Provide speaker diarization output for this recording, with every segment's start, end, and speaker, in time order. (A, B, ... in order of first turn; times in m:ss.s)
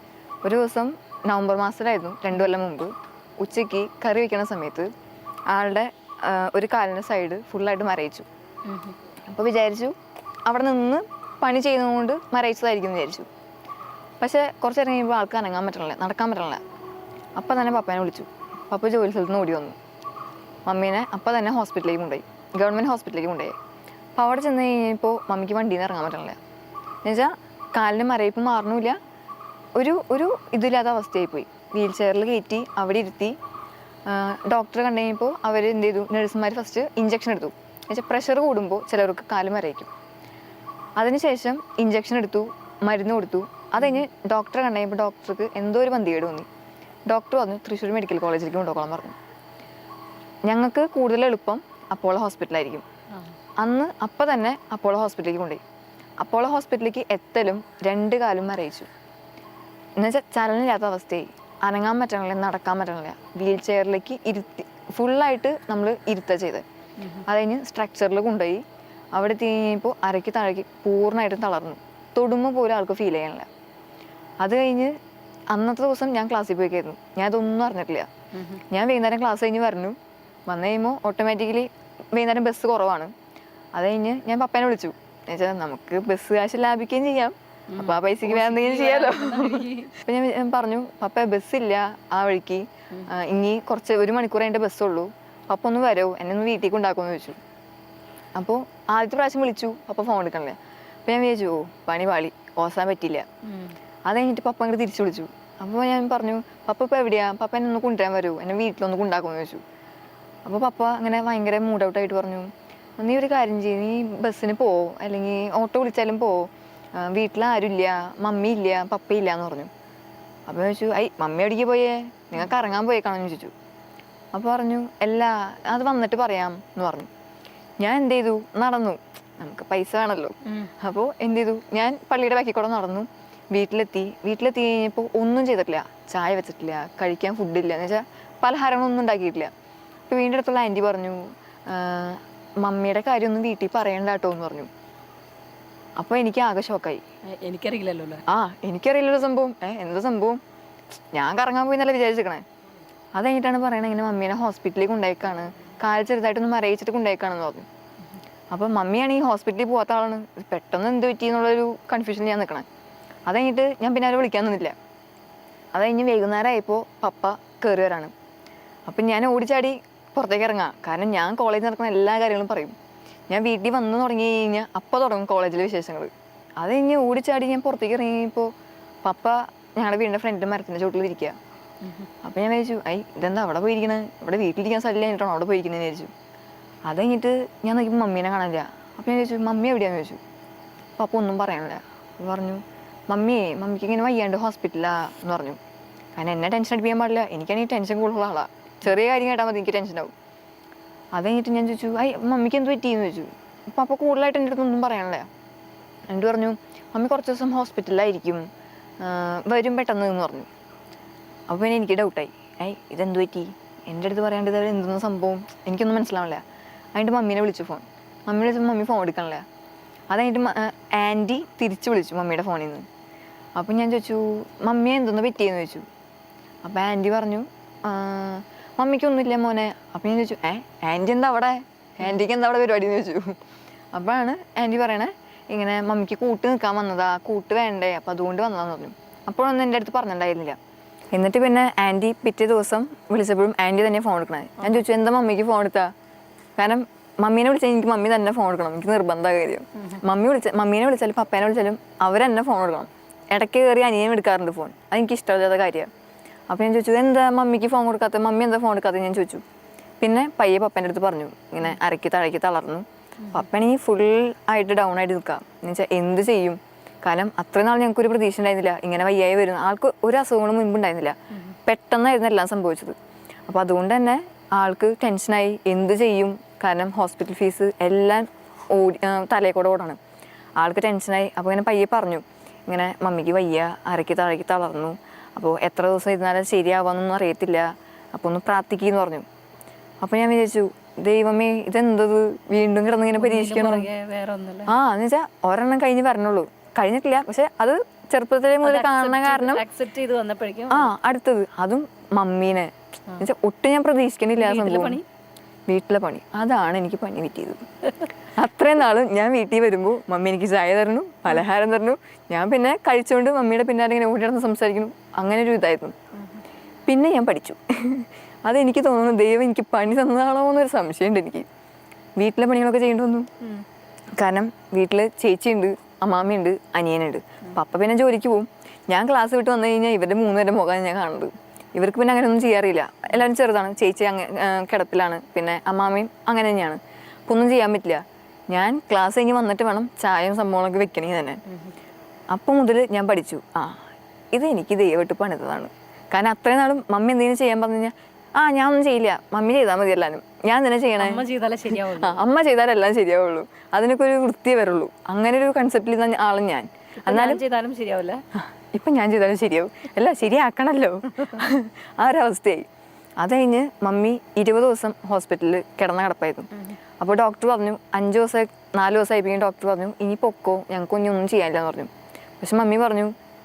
0:00.4-0:04.9 A
0:05.5-0:08.3 A
0:08.7-0:09.0 B
0:09.3-0:09.9 A
0:10.5-0:13.3 A
0:14.2-0:16.6 A
0:17.4-0:19.8 A
0:20.7-0:23.6 A
0:24.2-0:26.4 A
0:27.0-0:29.0 A
0:29.8-0:33.4 A
0:34.1-0:39.9 A
0:41.0-0:46.5 A
0:47.1-0:49.2 A
0:50.5-0:52.8 A
0:53.6-0:55.6 A
0:56.2-0:58.9 A
1:00.0-1:13.5 A
1:14.4-1:15.0 A
1:15.5-1:20.0 A
1:20.5-1:23.1 A
1:23.7-1:37.4 A
1:27.7-1:30.0 B
1:38.4-1:43.3 A
1:43.5-1:43.8 B
1:44.1-1:49.6 A
1:50.4-1:59.7 A
2:00.5-2:03.5 A
2:04.3-2:07.1 A
2:07.8-2:19.5 A
2:20.1-2:24.7 A
2:26.0-2:27.0 A
2:27.4-2:28.2 B
2:28.3-2:30.4 A
2:31.1-2:32.4 A
2:33.2-2:37.7 A
2:38.5-2:42.7 A
2:43.3-2:44.8 A
2:45.7-2:48.1 A
2:48.9-2:52.8 A
2:53.3-2:58.5 A
2:59.0-3:01.4 A
3:02.2-3:06.1 A
3:06.9-3:10.2 A
3:11.0-3:15.6 A
3:16.2-3:20.1 A
3:21.1-3:25.3 A
3:26.1-3:28.5 A
3:29.0-3:30.5 A
3:31.5-3:39.4 A
3:40.1-3:42.9 A
3:43.6-3:45.9 A
3:46.6-3:53.4 A
3:53.9-4:00.6 A
4:01.1-4:05.9 A
4:06.6-4:15.9 A
4:16.5-4:19.4 A
4:20.0-4:33.0 A
4:33.5-4:40.0 A
4:40.6-4:49.3 A
4:50.0-4:53.9 A
4:53.2-4:54.7 B
4:54.7-4:59.6 A
4:58.6-5:00.9 B
5:00.7-5:05.0 A
5:04.4-5:05.0 B
5:05.7-5:07.6 A
5:08.2-5:16.0 A
5:16.9-5:21.5 A
5:22.2-5:23.3 A
5:24.2-5:41.4 A
5:42.3-5:43.8 A
5:44.3-5:51.2 A
5:51.0-5:52.2 B
5:51.8-5:57.4 A
5:57.0-5:58.2 B
5:58.4-6:02.7 A
6:03.2-6:06.5 A
6:07.0-6:13.1 A